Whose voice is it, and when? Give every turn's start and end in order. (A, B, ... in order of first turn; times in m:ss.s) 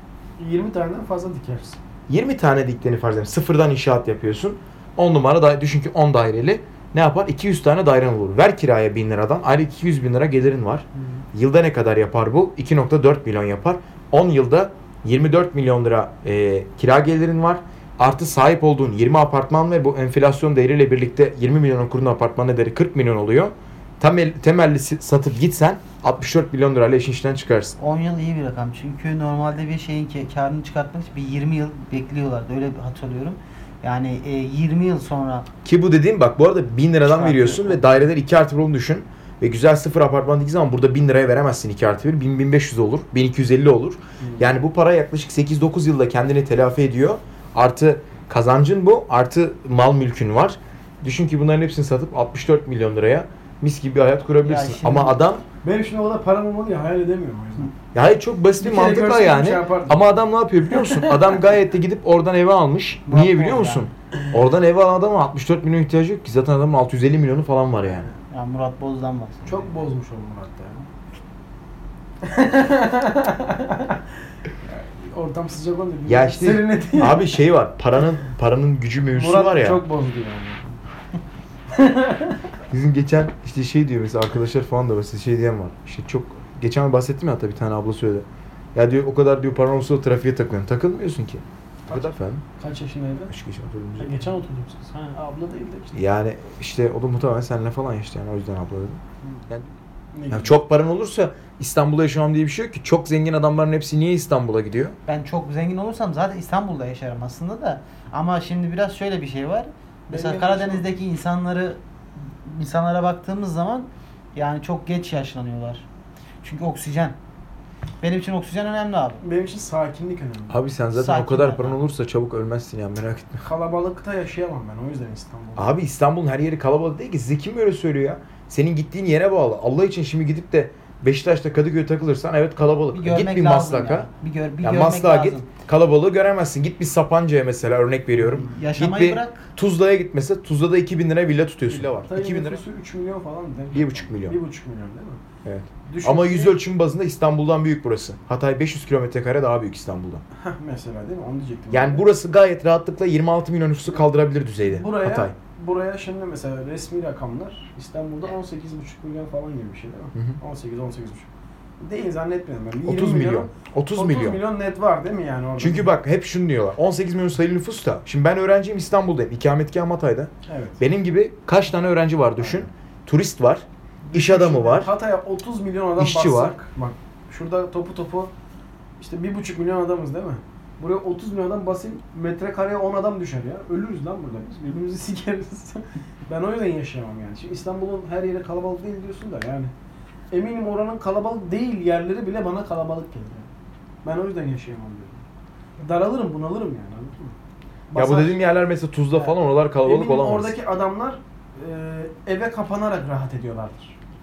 0:00.4-0:01.8 A
0:02.1-0:27.7 B
0:27.8-0:35.5 C
0:35.6-0:55.4 B
0:37.2-0:37.8 C
0:37.2-0:37.6 A
0:44.2-0:44.5 A
0:54.4-0:55.2 C
0:55.6-0:57.7 A
0:57.9-1:08.1 B
0:58.6-1:00.2 A
1:00.7-1:01.3 A
1:03.1-1:03.9 C
1:08.3-1:09.8 C
1:09.4-1:10.9 A
1:12.2-1:14.0 A
1:14.6-1:17.3 A
1:16.1-1:19.8 B
1:19.1-1:20.8 A
1:21.7-1:22.4 A
1:22.7-1:32.4 B
1:31.9-1:33.3 A
1:33.3-1:34.2 B
1:34.0-1:36.0 A
1:35.9-1:39.7 B
1:40.2-1:40.5 A
1:40.3-1:45.0 B
1:45.1-1:55.8 C
1:50.1-1:50.8 A
1:56.4-1:57.2 C
1:58.0-1:59.2 C
1:59.2-2:00.6 A
2:00.5-2:03.4 B
2:00.9-2:01.8 C
2:03.4-2:05.7 A
2:05.6-2:14.1 B
2:12.9-2:15.4 C
2:14.6-2:22.6 B
2:18.5-2:19.5 C
2:21.7-2:25.2 A
2:23.7-2:24.4 B
2:25.4-2:30.2 B
2:25.9-2:26.5 A
2:30.4-2:32.0 A
2:31.7-2:35.3 B
2:34.6-2:41.3 A
2:41.8-2:45.9 A
2:42.8-2:44.4 B
2:45.6-2:54.9 B
2:50.5-2:50.8 A
2:54.0-2:58.3 A
2:56.0-2:56.6 B
2:59.0-3:09.7 A
3:10.3-3:13.5 A
3:14.0-3:15.2 A
3:15.8-3:17.4 A
3:17.9-3:18.4 A
3:17.9-3:20.6 B
3:19.1-3:24.0 A